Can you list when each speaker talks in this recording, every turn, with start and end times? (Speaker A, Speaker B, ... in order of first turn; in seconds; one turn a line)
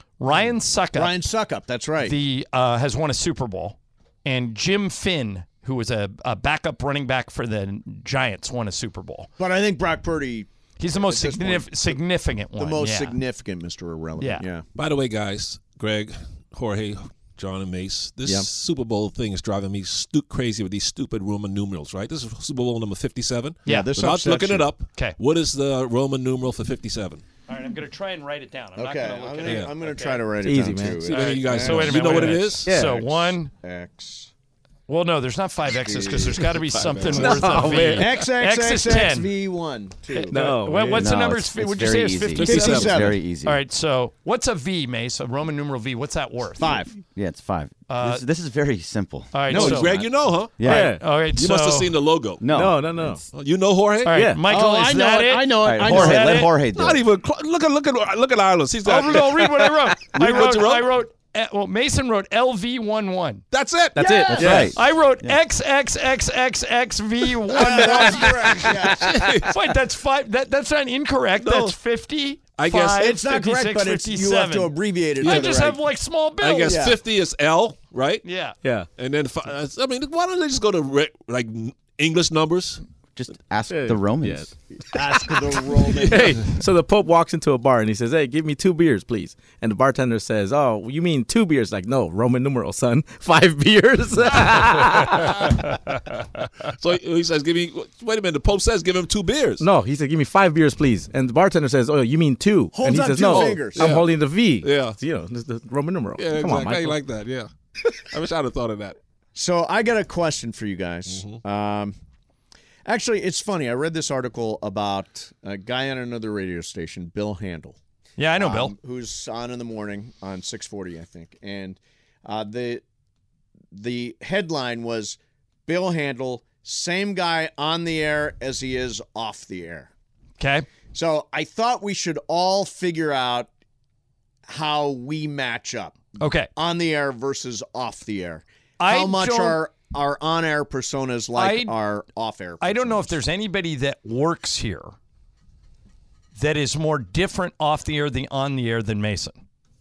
Speaker A: 0.2-1.2
Speaker B: 0.3-2.2
Speaker A: 2.0-9.3
Speaker B: 9.4-12.0
Speaker A: 10.8-13.2
Speaker B: 12.6-14.6
Speaker A: 14.2-14.4
Speaker C: 14.8-27.2
Speaker B: 23.7-24.7
Speaker A: 27.5-30.2
Speaker B: 28.8-34.3
Speaker C: 29.4-29.7
Speaker D: 30.4-31.1
Speaker A: 31.1-33.5
Speaker C: 31.1-32.7
Speaker D: 32.6-33.0
Speaker A: 34.9-39.3
Speaker B: 35.9-36.3
Speaker C: 36.5-38.0
Speaker D: 37.1-38.1
Speaker B: 38.0-40.6
Speaker D: 40.3-41.1
Speaker A: 40.4-46.8
Speaker E: 41.0-43.6
Speaker C: 42.4-43.1
Speaker B: 42.4-43.2
Speaker B: 46.6-47.0
Speaker E: 47.0-50.9
Speaker A: 47.9-48.2
Speaker A: 49.3-49.9
Speaker B: 49.5-49.9
Speaker C: 49.5-52.5
Speaker D: 50.6-51.0
Speaker A: 50.6-51.9
Speaker E: 52.4-52.8
Speaker D: 52.5-53.2
Speaker C: 53.3-54.3
Speaker A: 54.1-56.5
Speaker D: 54.1-54.4
Speaker B: 54.5-56.5
Speaker D: 55.6-56.1
Speaker E: 55.8-57.0
Speaker C: 56.7-60.9
Speaker A: 58.9-63.4
Speaker C: 63.5-64.7
Speaker D: 64.0-64.8
Speaker B: 64.0-64.7
Speaker E: 64.4-65.4
Speaker A: 64.7-68.7
Speaker B: 67.5-69.4
Speaker C: 67.7-69.5
Speaker A: 69.5-76.8
Speaker C: 71.4-71.8
Speaker C: 72.6-73.0
Speaker B: 73.0-75.8
Speaker C: 75.2-75.6
Speaker C: 76.4-78.2
Speaker B: 76.7-77.0
Speaker A: 78.2-78.5
Speaker D: 78.6-78.9
Speaker C: 79.0-82.8
Speaker E: 83.2-84.5
Speaker D: 83.7-84.5
Speaker B: 84.9-86.4
Speaker C: 85.9-86.4
Speaker D: 86.0-95.5
Speaker C: 95.1-99.7
Speaker D: 99.6-107.0
Speaker B: 102.7-103.9
Speaker C: 103.2-105.0
Speaker C: 106.2-109.0
Speaker B: 109.3-111.9
Speaker C: 111.1-111.4
Speaker B: 112.8-117.8
Speaker A: 118.2-118.8
Speaker B: 118.4-122.8
Speaker B: 123.7-129.9
Speaker A: 130.4-130.7
Speaker B: 130.9-133.5
Speaker B: 134.5-136.0
Speaker A: 136.2-136.5
Speaker B: 136.6-143.1
Speaker A: 138.8-139.6
Speaker A: 141.3-141.7
Speaker A: 142.6-144.9
Speaker A: 146.4-149.4